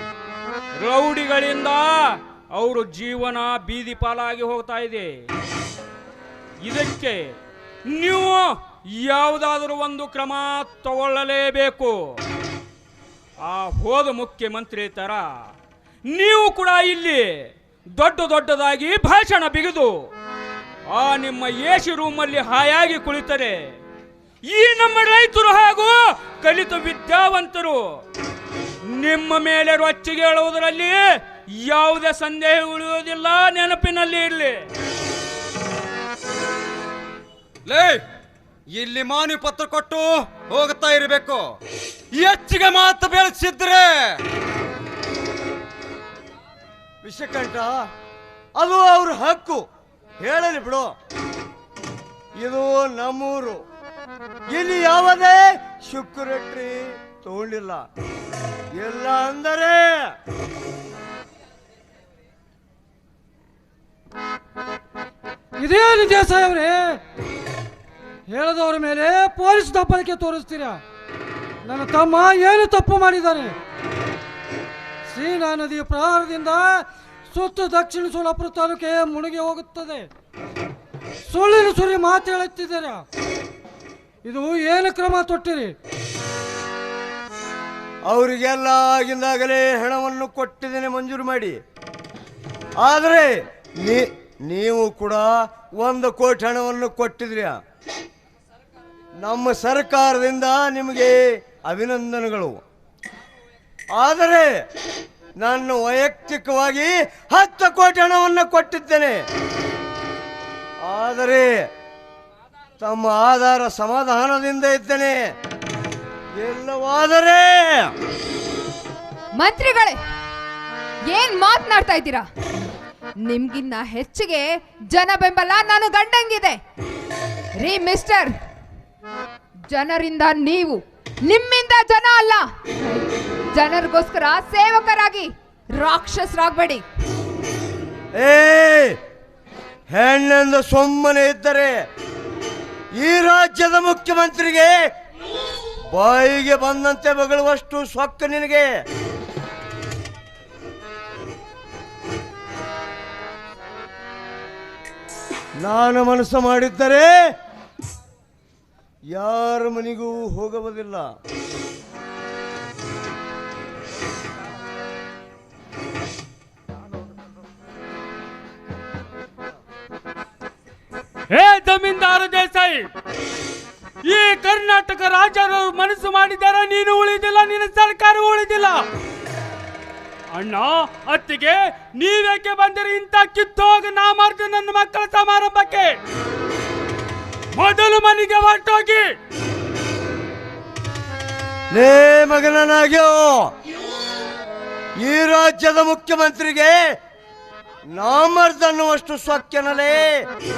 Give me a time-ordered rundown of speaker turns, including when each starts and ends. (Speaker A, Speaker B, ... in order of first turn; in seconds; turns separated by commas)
Speaker A: 0.8-5.2, Speaker A: 6.6-7.4, Speaker A: 7.9-12.2, Speaker A: 13.4-15.2, Speaker A: 16.1-20.1, Speaker A: 20.9-23.7, Speaker A: 24.5-27.9, Speaker A: 28.9-34.7, Speaker B: 37.7-38.0, Speaker B: 38.7-41.4, Speaker B: 42.2-43.9, Speaker C: 47.0-47.9, Speaker C: 48.6-49.6, Speaker C: 50.2-50.9, Speaker C: 52.4-53.6, Speaker C: 54.5-57.9, Speaker C: 58.7-60.1, Speaker D: 65.6-67.0, Speaker D: 68.3-70.8, Speaker D: 71.7-73.6, Speaker D: 75.1-80.1, Speaker D: 81.3-83.0, Speaker D: 84.2-85.8, Speaker C: 88.1-91.6, Speaker C: 92.8-97.6, Speaker C: 99.2-102.6, Speaker C: 103.9-104.6, Speaker C: 105.4-109.2, Speaker C: 110.8-111.7, Speaker C: 112.8-115.3, Speaker C: 116.4-117.9, Speaker E: 119.4-120.0, Speaker E: 121.1-122.3, Speaker E: 123.2-126.6, Speaker E: 127.6-128.3, Speaker E: 129.7-132.5, Speaker E: 133.6-136.8, Speaker C: 138.2-139.0, Speaker C: 139.9-141.8, Speaker C: 143.0-144.8, Speaker C: 145.9-148.7, Speaker C: 155.6-157.1, Speaker C: 159.1-161.1, Speaker F: 171.3-172.9, Speaker F: 174.1-178.8, Speaker F: 180.3-185.9, Speaker F: 187.6-189.1, Speaker C: 191.7-193.5, Speaker C: 195.0-196.8, Speaker C: 197.9-200.3